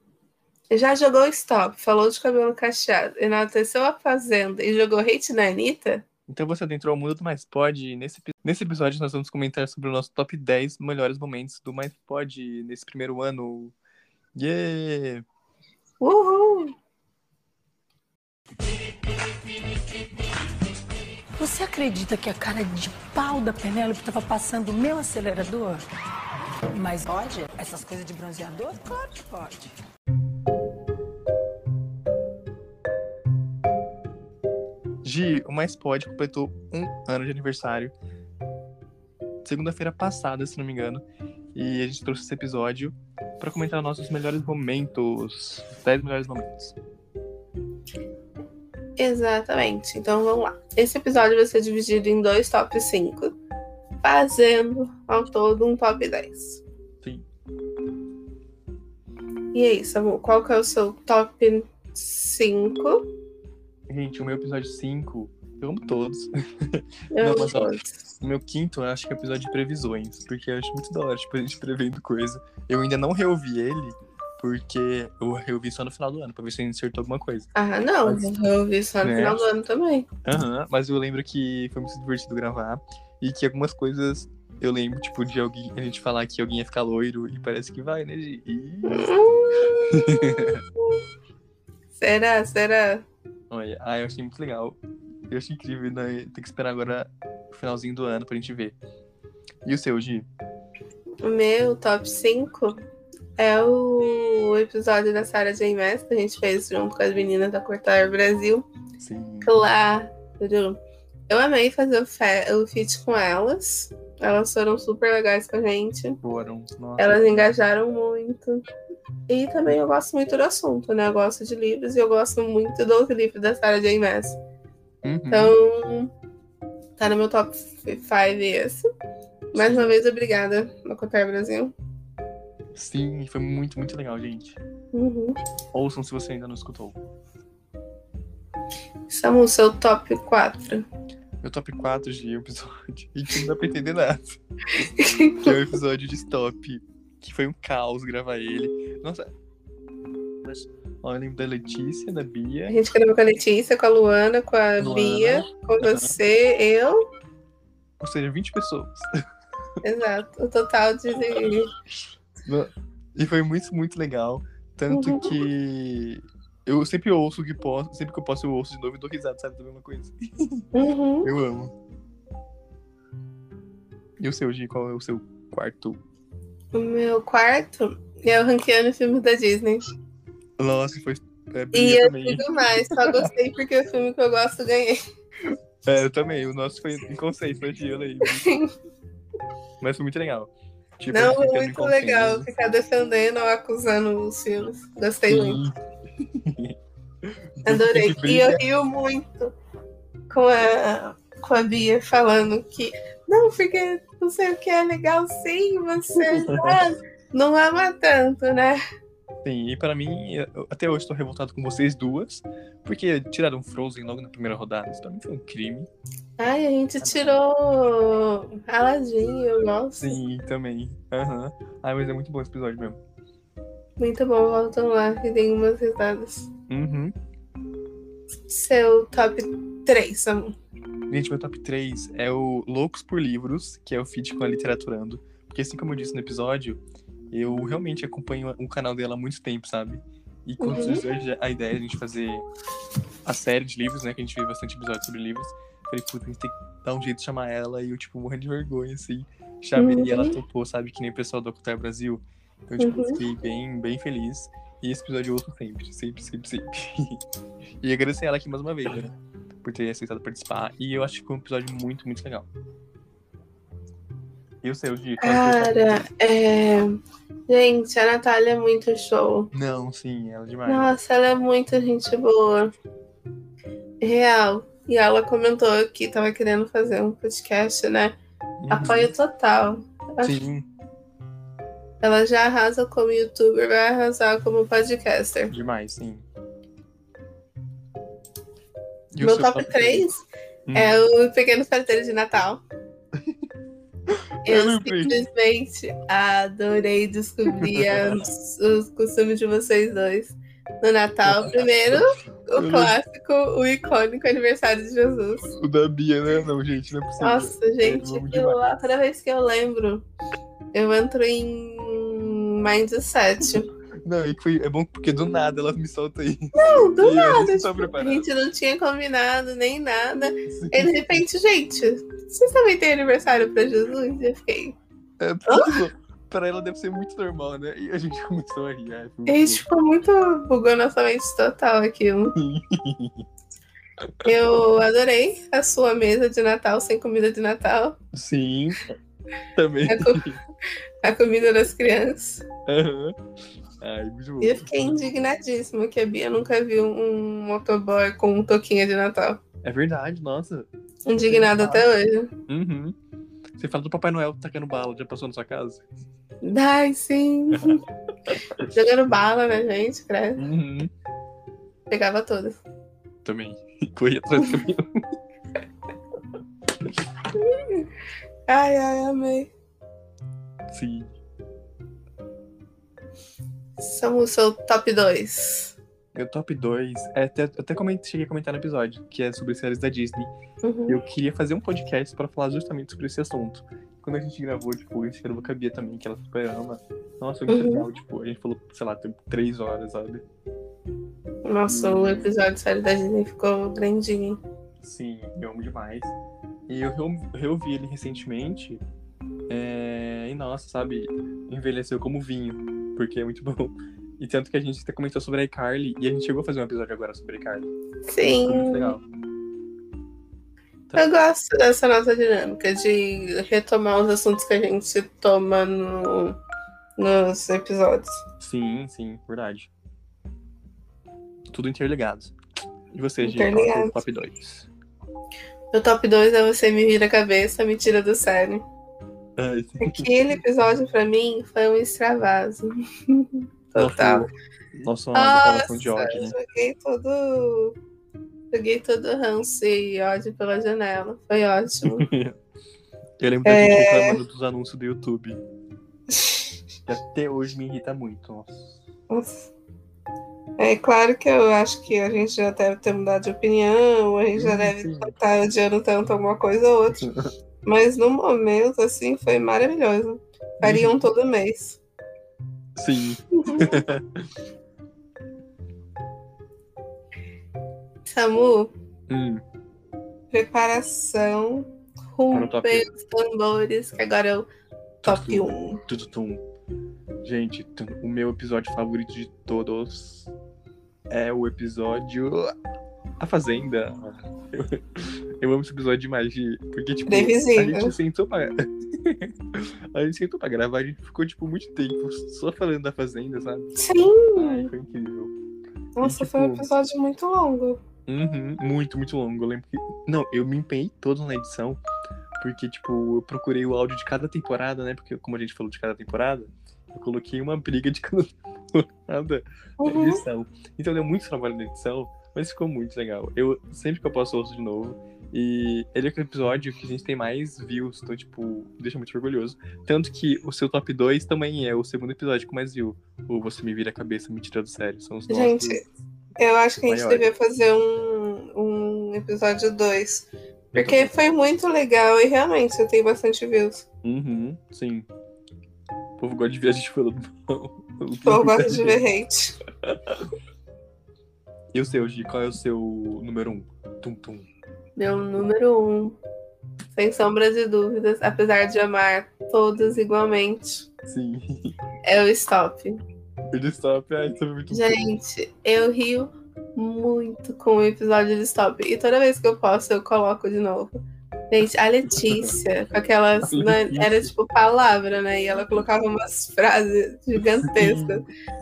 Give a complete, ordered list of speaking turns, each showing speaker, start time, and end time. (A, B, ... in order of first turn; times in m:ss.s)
0:00.7-0:06.0 A
0:06.3-0:13.7 B
0:14.3-0:15.2 B
0:16.0-0:16.7 A
0:21.4-0:25.8 C
0:26.7-0:29.7 C
0:35.0-0:37.9 B
0:39.4-0:41.0 B
0:41.5-0:46.8 B
0:49.0-0:53.4 A
0:54.0-0:56.6 A
0:59.5-1:03.0 A
1:03.9-1:17.5 B
1:07.1-1:07.9 A
1:17.5-1:20.1 A
1:18.0-1:18.3 B
1:19.0-1:19.4 B
1:20.2-1:29.1 B
1:28.8-1:30.4 A
1:29.9-1:30.6 B
1:31.9-1:33.0 A
1:33.5-1:38.8 B
1:39.6-1:40.3 B
1:41.2-1:42.8 A
1:43.4-1:48.7 A
1:49.0-1:49.5 B
1:49.4-1:56.2 A
1:56.2-1:57.6 B
1:57.0-1:58.6 A
1:59.3-2:04.4 A
2:05.0-2:05.5 B
2:05.3-2:06.1 A
2:07.0-2:08.8 A
2:09.5-2:11.7 A
2:09.5-2:10.0 B
2:12.7-2:14.6 B
2:14.9-2:15.4 A
2:15.7-2:17.0 B
2:19.1-2:20.8 A
2:21.4-2:24.4 B
2:24.9-2:25.6 A
2:25.4-2:29.3 B
2:30.4-2:32.7 B
2:32.7-2:37.0 A
2:34.8-2:36.2 B
2:38.0-2:39.1 B
2:39.8-2:41.7 A
2:42.4-2:50.6 B
2:44.9-2:45.3 A
2:50.7-2:51.3 A
2:51.2-2:51.7 B
2:54.2-2:56.0 B
2:56.7-2:59.8 A
3:00.6-3:03.3 B
3:01.7-3:05.0 A
3:05.8-3:08.4 B
3:08.2-3:08.6 A
3:09.8-3:12.5 B
3:11.1-3:15.6 A
3:15.3-3:15.7 B
3:16.3-3:16.7 B
3:17.6-3:18.6 B
3:17.6-3:19.5 A
3:20.3-3:28.8 A
3:26.2-3:26.8 B
3:29.4-3:35.9 B
3:36.4-3:40.2 A
3:37.0-3:37.4 B
3:40.0-3:43.0 B
3:44.0-3:46.5 A
3:46.7-3:47.1 B
3:48.5-3:50.5 A
3:51.1-4:02.4 B
4:00.6-4:01.0 A
4:03.2-4:17.2 B
4:09.8-4:10.4 A
4:12.8-4:13.2 A
4:17.8-4:19.1 B
4:19.6-4:22.5 B
4:24.6-4:26.0 B
4:25.2-4:26.9 A
4:27.5-4:29.5 A
4:29.5-4:30.9 B
4:30.6-4:32.7 A
4:34.0-4:38.2 A
4:38.6-4:39.1 B
4:38.7-4:40.3 A
4:40.2-4:40.7 B
4:42.0-4:45.5 A
4:45.5-4:46.2 B
4:49.1-4:50.1 B
4:49.2-4:52.6 A
4:50.7-4:51.0 B
4:54.4-4:55.2 B
4:54.4-5:05.5 A
4:57.6-4:58.2 B
5:01.2-5:02.0 B
5:02.5-5:02.9 B
5:05.5-5:08.6 B
5:07.2-5:10.0 A
5:10.7-5:13.7 A
5:14.0-5:18.2 B
5:16.5-5:24.8 A
5:20.5-5:21.2 B
5:25.2-5:29.6 B
5:25.5-5:25.8 A
5:29.3-5:32.4 A
5:32.4-5:33.2 B
5:34.2-5:38.0 A
5:38.1-5:38.9 B
5:39.6-5:40.4 B
5:39.9-5:40.2 A
5:41.0-5:42.4 A
5:42.7-5:43.1 B
5:43.8-5:45.0 B
5:44.4-5:49.4 A
5:49.6-5:50.7 B
5:51.0-5:52.3 A
5:51.3-5:51.8 B
5:52.5-5:52.9 B
5:53.6-5:55.8 B
5:56.4-5:57.8 A
5:58.3-5:58.6 B
5:58.7-6:00.4 A
6:00.4-6:00.9 B
6:01.9-6:02.6 A
6:03.2-6:04.8 B
6:07.3-6:07.9 A
6:08.5-6:09.5 A
6:10.7-6:11.1 B
6:13.8-6:15.8 A
6:16.1-6:20.3 B
6:20.6-6:21.0 A
6:20.9-6:30.2 B
6:27.5-6:27.8 A
6:31.4-6:34.4 A
6:31.6-6:32.3 B
6:34.8-6:36.2 B
6:36.7-6:38.8 B
6:39.5-6:47.7 B
6:48.1-6:49.0 A
6:48.2-6:49.0 B
6:51.0-6:56.4 A
6:57.0-6:58.2 A
6:58.4-6:59.7 B
7:01.5-7:02.3 B
7:02.9-7:04.7 B
7:03.2-7:04.0 A
7:05.7-7:08.6 A
7:09.4-7:10.1 B
7:09.8-7:14.3 A
7:13.8-7:14.3 B
7:14.8-7:16.3 B
7:15.1-7:17.8 A
7:18.5-7:22.1 A
7:21.9-7:22.3 B
7:23.2-7:25.4 B
7:23.4-7:24.2 A
7:26.1-7:26.5 A
7:26.8-7:28.8 B
7:29.1-7:29.5 A
7:30.6-7:37.0 A
7:34.3-7:35.1 B
7:37.6-7:41.8 A
7:40.6-7:41.0 B
7:42.8-7:44.0 B
7:43.3-7:43.7 A
7:48.1-7:48.7 A
7:49.1-7:49.4 B
7:50.3-7:54.5 A
7:52.3-7:52.9 B
7:55.0-7:56.4 B
7:55.0-7:55.8 A
7:57.2-8:00.3 B
8:01.1-8:02.5 B
8:03.2-8:13.7 B
8:07.1-8:07.9 A
8:13.7-8:14.7 A
8:14.4-8:15.3 B
8:16.0-8:17.8 A
8:16.0-8:16.7 B
8:18.1-8:21.8 B
8:22.4-8:45.8 B
8:29.8-8:30.2 A
8:45.3-8:45.8 A
8:46.4-8:53.8 A
8:46.9-8:47.3 B
8:50.7-8:51.1 B
8:54.0-8:55.1 B
8:56.2-8:59.0 B
8:58.2-8:59.6 A
8:59.8-9:00.2 B
9:01.7-9:04.5 B
9:05.0-9:06.2 A
9:06.9-9:10.9 A
9:11.1-9:11.7 B
9:12.0-9:13.0 A
9:13.5-9:15.0 B
9:14.7-9:20.9 A
9:21.5-9:28.2 A
9:23.5-9:24.3 B
9:27.7-9:28.1 B